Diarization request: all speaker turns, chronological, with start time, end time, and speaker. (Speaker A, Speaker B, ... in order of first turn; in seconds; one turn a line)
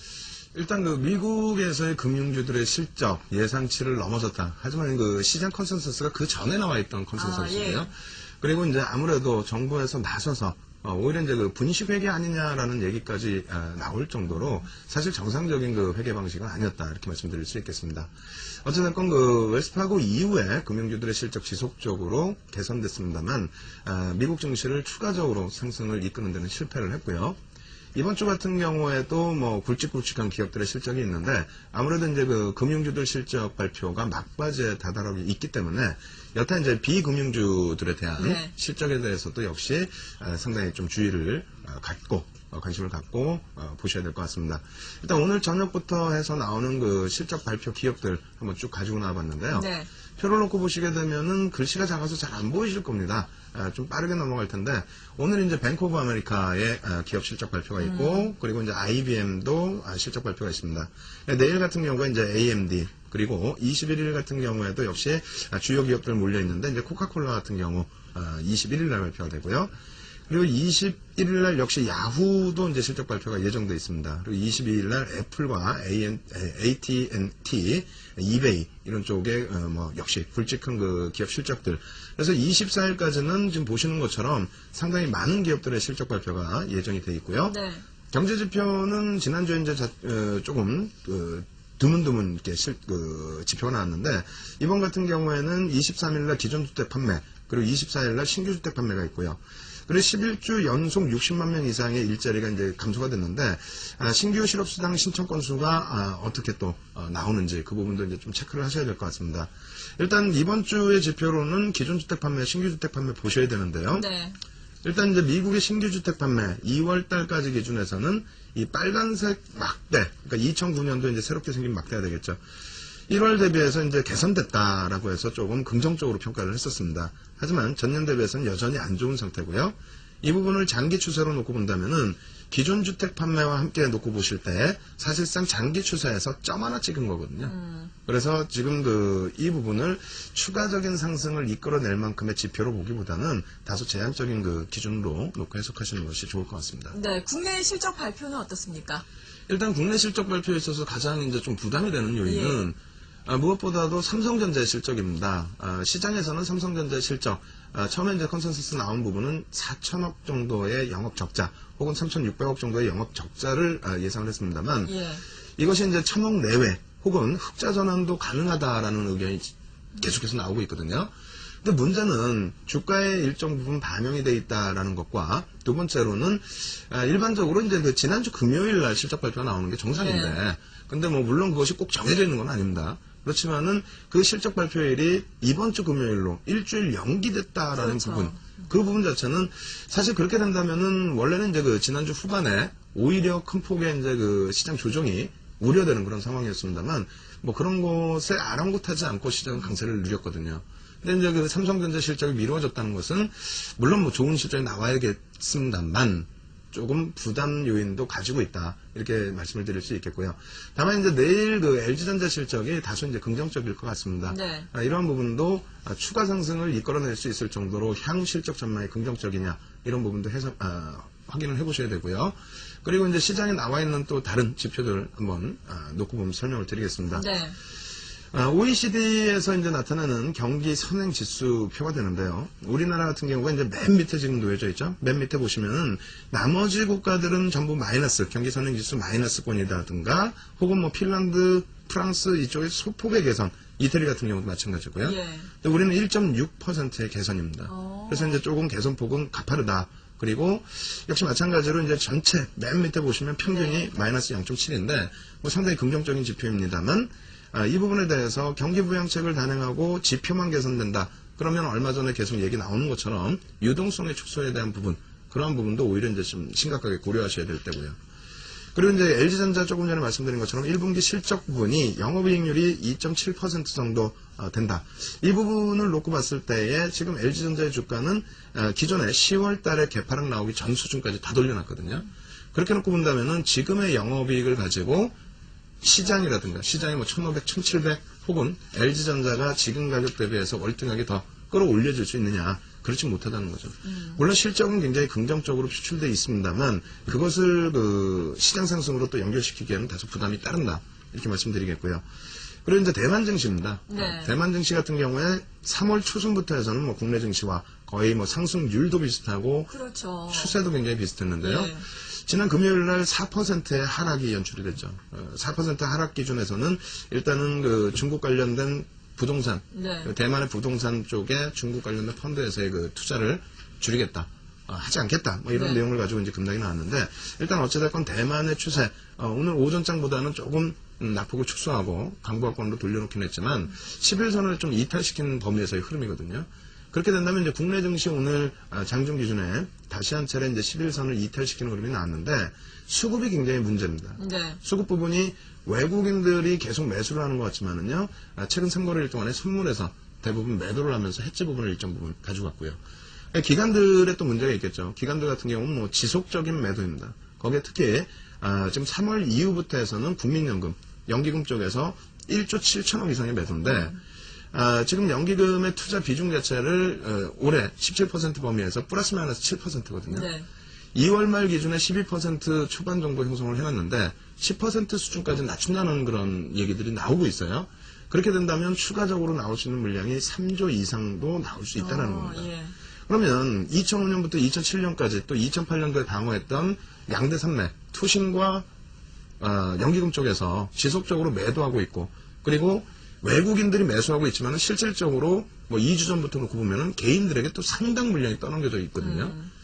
Speaker A: 0.5-18.1
Speaker B: 7.1-7.9
Speaker A: 18.6-27.4
Speaker A: 27.9-69.7
Speaker B: 38.2-38.5
Speaker B: 49.5-49.9
Speaker B: 57.8-58.3
Speaker A: 70.3-87.5
Speaker B: 87.4-87.8
Speaker A: 88.1-114.1
Speaker B: 113.9-114.4
Speaker A: 114.8-122.4
Speaker A: 123.1-146.9
Speaker B: 137.4-137.9
Speaker B: 146.9-149.0
Speaker A: 149.5-164.9
Speaker B: 152.2-152.6
Speaker B: 164.8-165.2
Speaker A: 165.6-171.1
Speaker A: 171.6-227.2
Speaker B: 179.9-180.4
Speaker B: 187.8-188.6
Speaker B: 214.3-214.7
Speaker B: 227.1-227.6
Speaker A: 228.3-268.0
Speaker B: 245.0-245.5
Speaker B: 247.7-248.4
Speaker B: 253.4-253.8
Speaker A: 268.7-285.2
Speaker A: 285.8-302.0
Speaker B: 293.8-294.2
Speaker A: 302.6-309.7
Speaker B: 303.9-304.3
Speaker B: 309.7-310.6
Speaker A: 310.3-352.8
Speaker B: 311.4-311.8
Speaker B: 319.7-320.1
Speaker B: 325.5-325.8
Speaker B: 344.2-344.6
Speaker A: 353.3-363.9
Speaker B: 363.6-363.9
Speaker A: 364.5-370.3
Speaker B: 370.1-370.4
Speaker A: 370.9-382.5
Speaker B: 381.7-382.7
Speaker A: 383.1-388.7
Speaker A: 389.4-399.4
Speaker B: 399.0-399.5